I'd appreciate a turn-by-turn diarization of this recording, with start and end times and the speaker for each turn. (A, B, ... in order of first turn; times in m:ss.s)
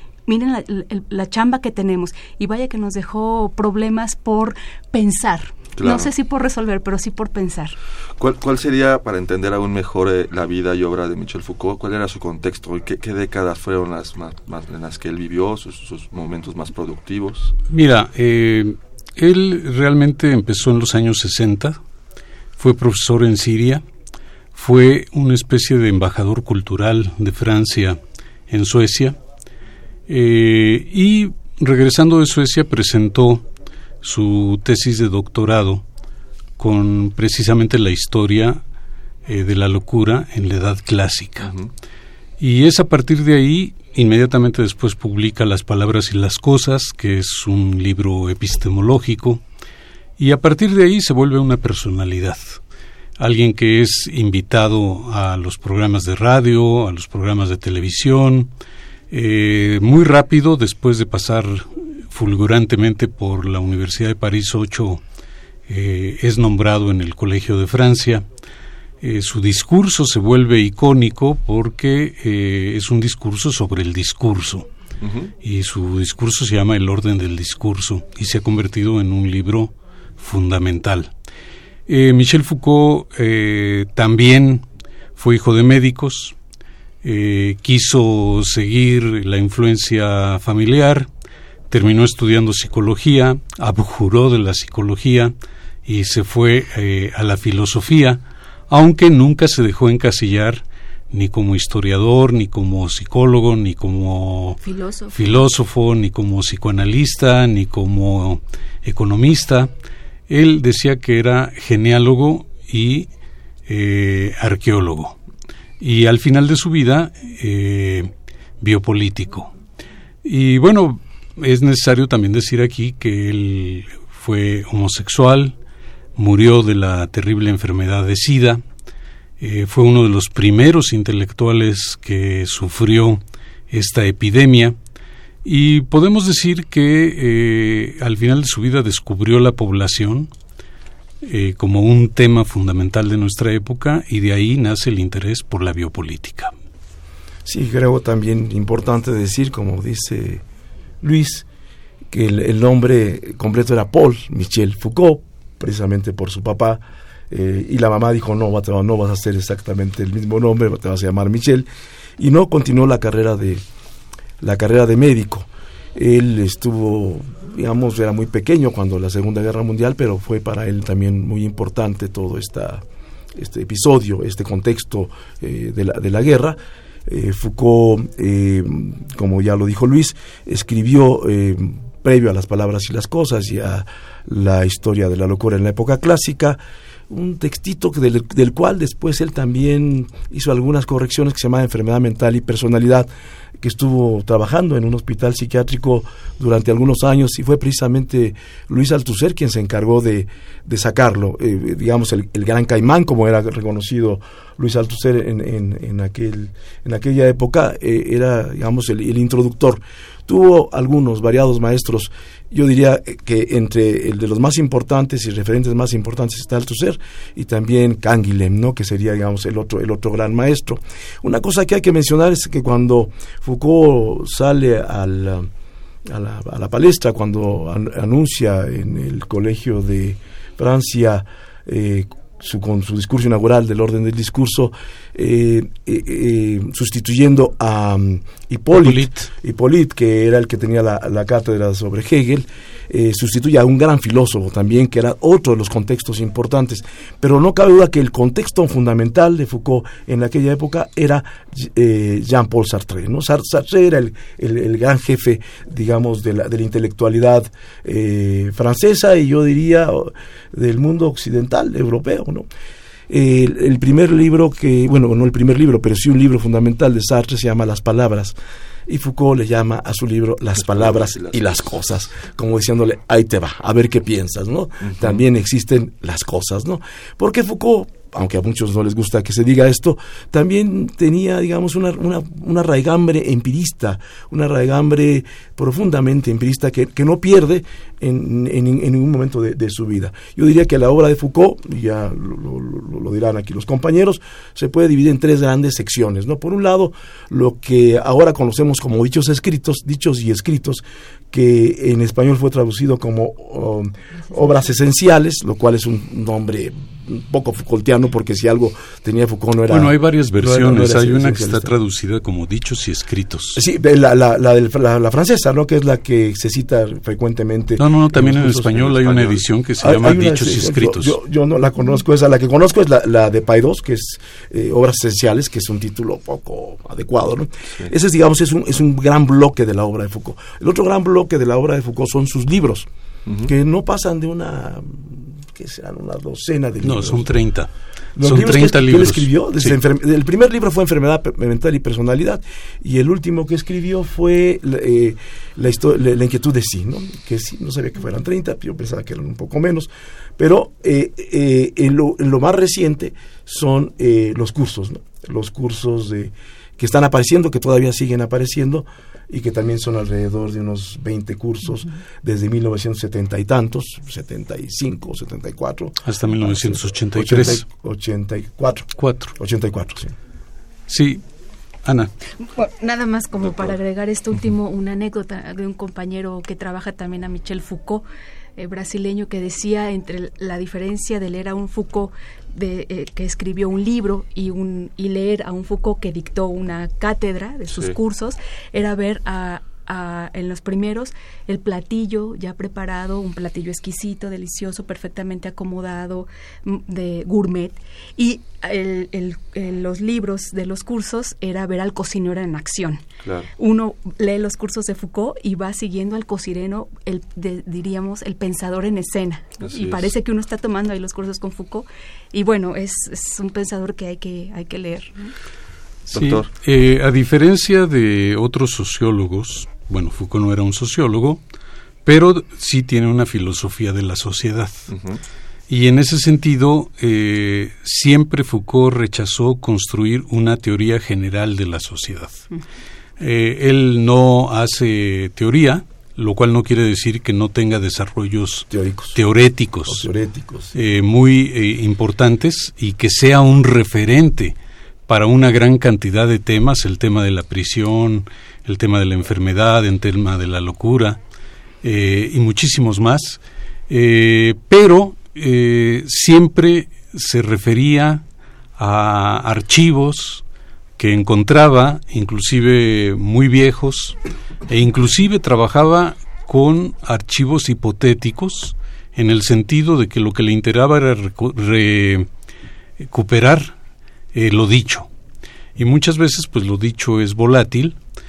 0:00.3-0:07.8 A
0:05.8-0:06.1 B
0:08.2-0:17.5 B
0:17.7-0:21.8 C
0:22.6-0:23.8 C
0:24.5-0:29.2 C
0:30.1-0:33.4 C
0:34.0-0:35.8 C
0:36.6-0:38.6 C
0:39.2-0:41.5 C
0:42.4-0:49.4 C
0:50.2-0:52.6 C
0:53.2-0:58.5 C
0:59.1-1:05.0 C
1:05.7-1:08.2 C
1:09.0-1:14.7 C
1:15.0-1:15.3 B
1:15.4-1:21.1 C
1:21.9-1:24.6 C
1:25.2-1:26.3 C
1:27.0-1:31.1 C
1:31.7-1:35.3 C
1:35.8-1:44.6 C
1:44.6-1:45.4 A
1:45.1-1:49.7 C
1:50.3-1:53.1 C
1:53.7-1:55.2 C
1:55.8-1:59.5 C
2:00.2-2:05.6 C
2:06.2-2:08.6 C
2:09.4-2:14.8 C
2:15.4-2:20.3 C
2:21.2-2:26.5 C
2:27.4-2:30.4 D
2:31.0-2:31.4 D
2:32.1-2:41.7 D
2:42.2-2:43.6 D
2:44.4-3:13.1 D
3:13.6-3:45.5 D
3:46.0-4:22.5 D
3:58.7-3:59.3 C
4:23.1-4:28.4 D
4:28.9-5:11.7 D
4:30.7-4:31.4 B
4:34.8-4:35.2 B
5:09.7-5:13.6 C
5:13.6-5:19.3 D
5:17.8-5:21.2 C
5:19.8-5:32.9 D
5:33.4-5:37.3 D
5:36.8-5:37.7 C
5:38.2-6:10.1 D
5:38.2-5:39.7 C
6:06.0-6:07.6 C
6:09.0-6:09.3 C
6:10.9-6:11.2 C
6:11.8-6:12.1 C
6:12.4-6:18.0 A
6:18.6-6:43.0 A
6:43.2-6:43.5 B
6:43.6-6:55.3 A
6:49.6-6:50.1 B
6:56.1-7:01.4 C
6:56.1-6:56.5 B
7:02.0-7:04.9 C
7:04.9-7:05.2 B
7:05.7-7:12.5 C
7:13.2-7:20.1 C
7:18.7-7:19.2 D
7:19.8-7:20.7 D
7:20.7-7:24.6 C
7:25.1-7:31.2 C
7:31.8-7:38.2 C
7:38.8-7:40.4 C
7:41.0-7:52.3 C
7:53.0-7:53.7 C
7:54.3-7:55.1 C
7:55.8-7:58.0 C